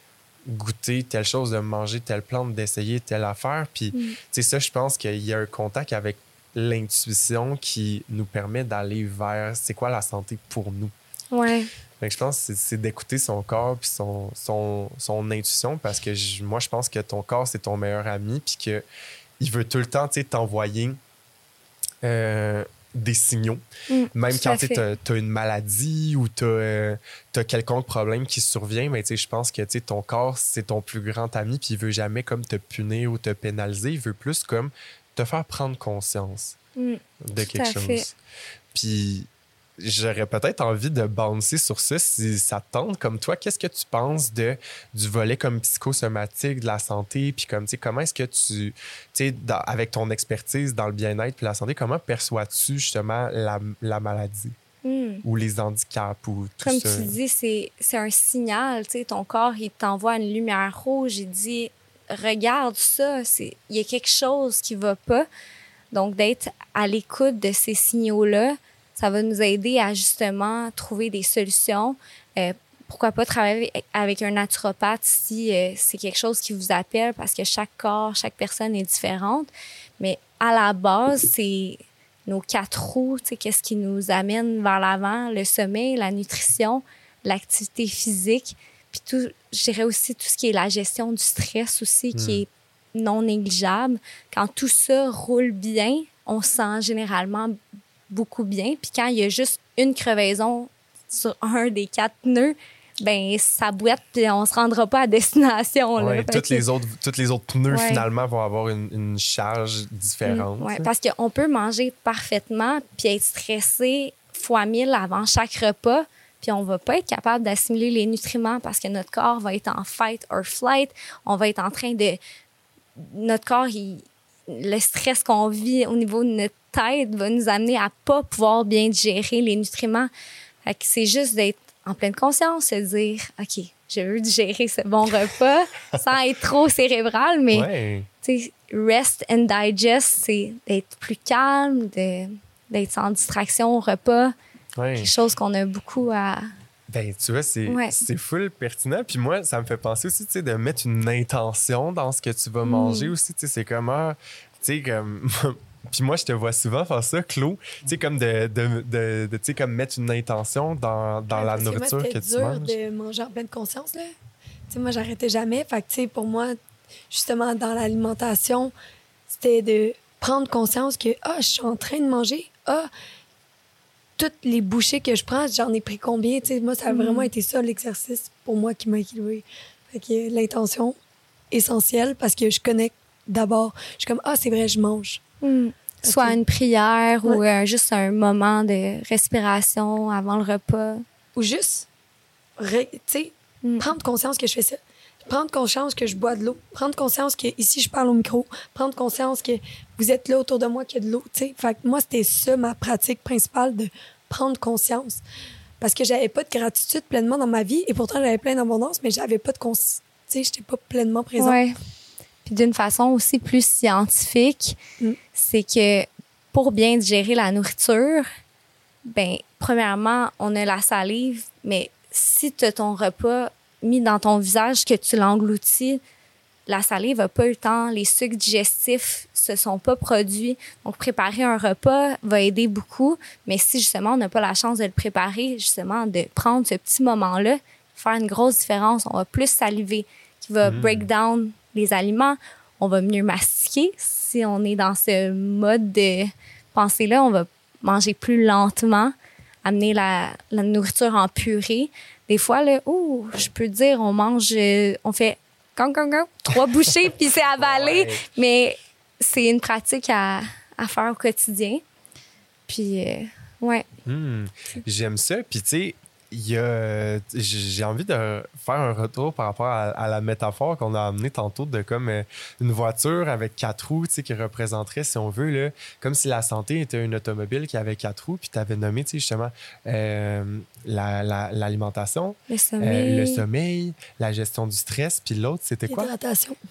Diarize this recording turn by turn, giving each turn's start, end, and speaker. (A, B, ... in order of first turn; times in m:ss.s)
0:00.4-0:10.9 A
0:03.9-0:04.2 B
0:11.3-0:11.7 B
0:12.0-0:18.8 A
0:19.4-0:21.0 A
0:22.0-0:36.6 A
0:23.9-0:24.8 B
0:36.8-0:38.0 B
0:37.2-0:38.1 A
0:38.7-0:54.6 A
0:54.8-0:55.2 B
0:55.2-0:57.2 A
0:56.6-1:05.3 B
1:05.9-1:37.6 B
1:32.1-1:32.4 A
1:38.1-1:46.6 B
1:46.0-1:50.9 A
1:47.7-1:48.0 B
1:50.2-2:02.2 B
2:03.0-2:10.1 B
2:10.6-2:17.7 B
2:17.5-2:18.1 A
2:18.2-2:24.3 B
2:24.8-2:25.1 A
2:25.0-2:26.5 B
2:26.9-2:42.8 A
2:27.6-2:28.0 B
2:32.6-2:33.1 B
2:41.3-2:44.1 C
2:44.7-2:46.6 C
2:47.1-2:48.7 C
2:49.3-2:52.9 C
2:54.2-3:01.0 C
2:56.9-2:57.3 B
3:01.5-3:05.2 C
3:05.4-3:11.0 B
3:06.0-3:06.4 C
3:11.3-3:11.9 C
3:12.6-3:25.2 C
3:13.6-3:13.9 B
3:25.8-3:31.6 C
3:31.4-3:31.8 B
3:32.4-3:34.8 B
3:35.4-3:38.3 B
3:39.0-3:46.0 B
3:46.7-4:09.1 B
4:00.6-4:01.1 A
4:09.6-4:21.8 B
4:17.6-4:18.2 A
4:22.7-4:23.9 B
4:24.0-4:46.1 A
4:42.5-4:43.4 B
4:45.9-4:46.6 C